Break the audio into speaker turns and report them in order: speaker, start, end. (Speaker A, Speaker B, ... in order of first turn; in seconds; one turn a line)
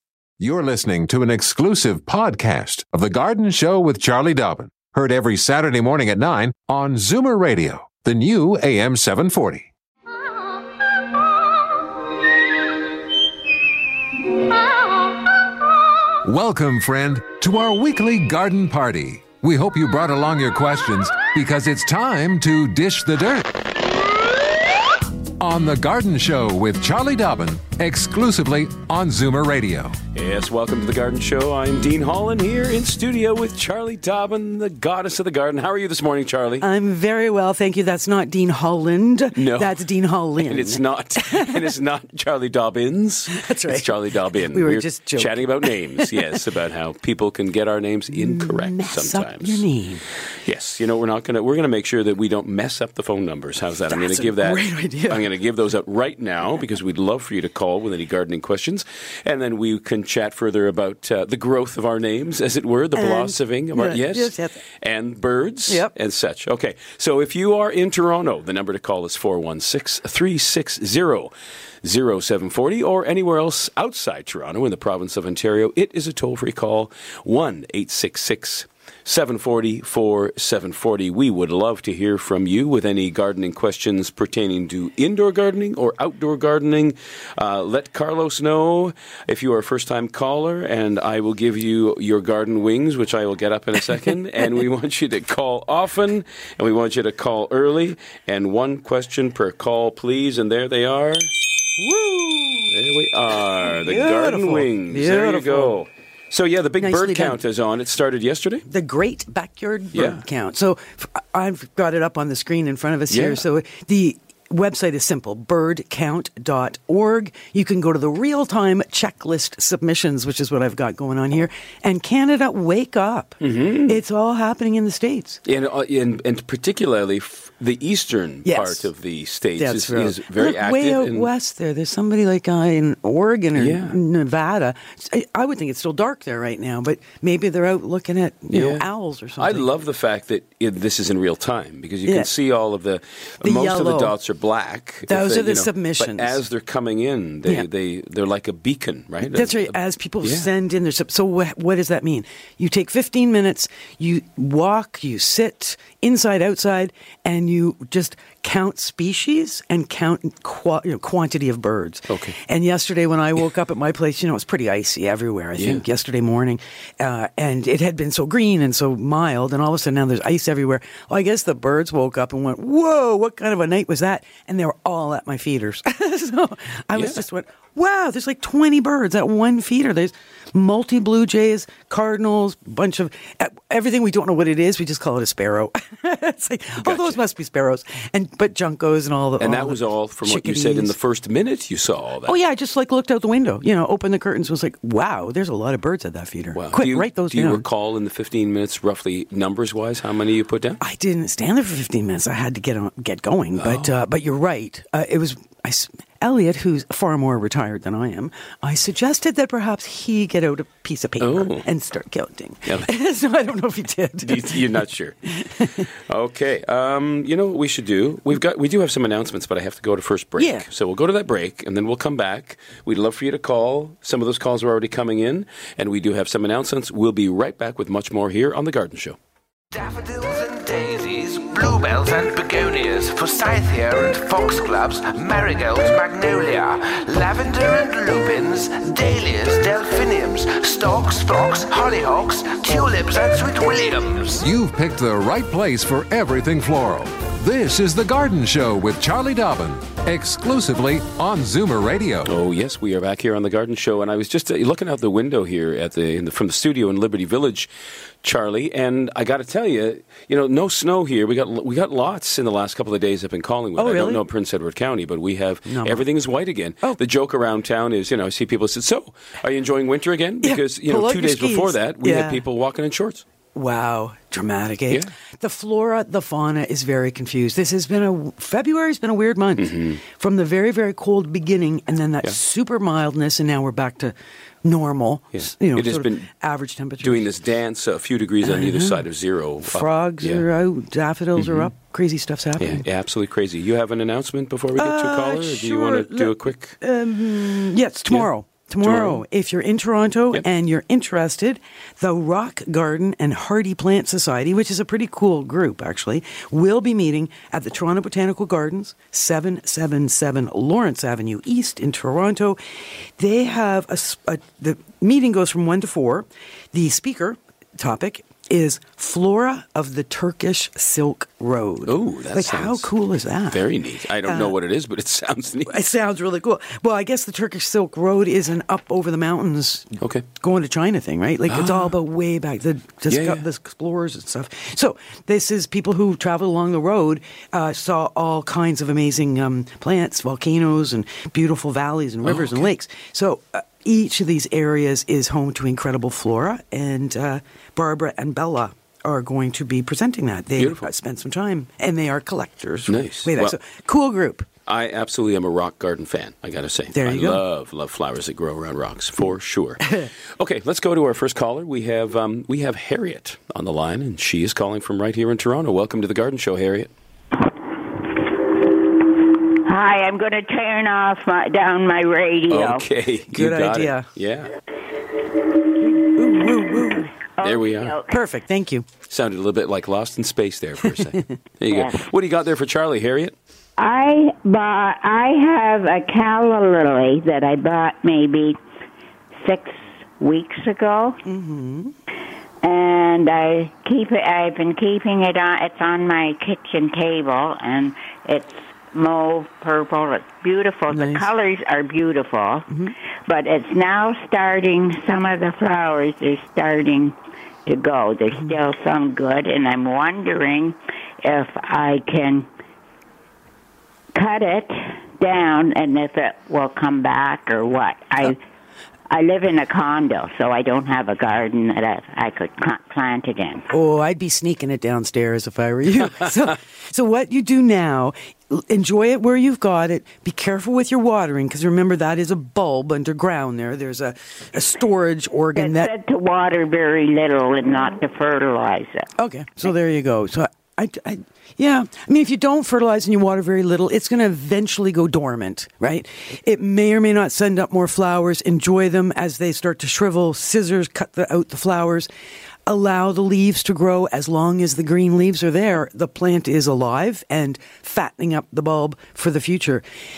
Speaker A: 0.4-9.7
Speaker A: 16.2-23.5
Speaker A: 25.4-30.0
Speaker B: 30.1-36.7
Speaker C: 36.6-41.6
Speaker B: 39.4-39.8
Speaker B: 40.4-49.7
Speaker C: 43.3-46.4
Speaker C: 48.1-50.1
Speaker B: 50.3-101.3
Speaker C: 53.9-55.3
Speaker C: 63.0-64.6
Speaker C: 65.7-65.9
Speaker C: 101.8-102.7
Speaker B: 102.7-108.7
Speaker C: 103.7-105.8
Speaker C: 106.8-107.4
Speaker C: 108.7-125.4
Speaker B: 109.9-110.2
Speaker B: 113.1-113.4
Speaker B: 123.4-124.0
Speaker B: 125.5-131.3
Speaker C: 128.4-128.9
Speaker C: 129.6-139.7
Speaker B: 133.6-134.0
Speaker B: 138.5-150.5
Speaker C: 143.4-144.2
Speaker C: 145.1-146.4
Speaker C: 149.2-190.9
Speaker B: 162.1-162.4
Speaker B: 165.6-165.8
Speaker B: 176.9-177.2
Speaker B: 186.8-187.2
Speaker B: 189.4-192.4
Speaker C: 192.2-197.6
Speaker B: 196.5-200.8
Speaker C: 200.8-214.7
Speaker B: 203.6-203.9
Speaker B: 211.2-211.7
Speaker B: 214.2-229.2
Speaker C: 215.4-215.9
Speaker C: 220.4-220.7
Speaker D: 229.7-244.4
Speaker A: 244.4-252.3
Speaker B: 252.3-257.7
Speaker B: 258.2-273.2
Speaker C: 263.8-264.2
Speaker C: 265.7-266.1
Speaker C: 270.4-272.4
Speaker C: 273.6-287.3
Speaker B: 279.6-280.0
Speaker B: 285.3-286.3
Speaker B: 287.0-290.5
Speaker C: 288.4-289.1
Speaker C: 289.6-292.8
Speaker B: 291.4-291.7
Speaker B: 292.6-296.8
Speaker C: 294.8-312.6
Speaker B: 298.8-299.2
Speaker C: 313.2-323.6
Speaker B: 321.9-322.9
Speaker B: 323.5-325.7
Speaker C: 324.3-324.6
Speaker C: 325.7-354.5
Speaker B: 330.0-330.3
Speaker B: 331.5-331.9
Speaker B: 333.1-333.5
Speaker B: 342.2-342.7
Speaker B: 350.6-350.9
Speaker B: 352.9-353.6
Speaker B: 354.7-366.9
Speaker C: 356.9-357.4
Speaker E: 369.6-372.9
Speaker B: 372.5-374.5
Speaker C: 373.3-374.1
Speaker C: 375.8-377.1
Speaker E: 376.4-376.9
Speaker E: 377.4-378.2
Speaker B: 377.4-378.0
Speaker C: 378.1-378.9
Speaker B: 379.1-383.4
Speaker C: 380.9-381.3
Speaker E: 381.7-382.1
Speaker E: 383.8-388.6
Speaker E: 389.4-391.2
Speaker C: 391.2-391.9
Speaker E: 392.6-402.7
Speaker C: 400.9-401.3
Speaker C: 402.7-402.9
Speaker E: 403.3-412.5
Speaker E: 414.1-418.4
Speaker E: 419.1-423.7
Speaker C: 423.7-435.9
Speaker E: 435.6-439.1
Speaker C: 439.2-452.1
Speaker C: 452.7-459.8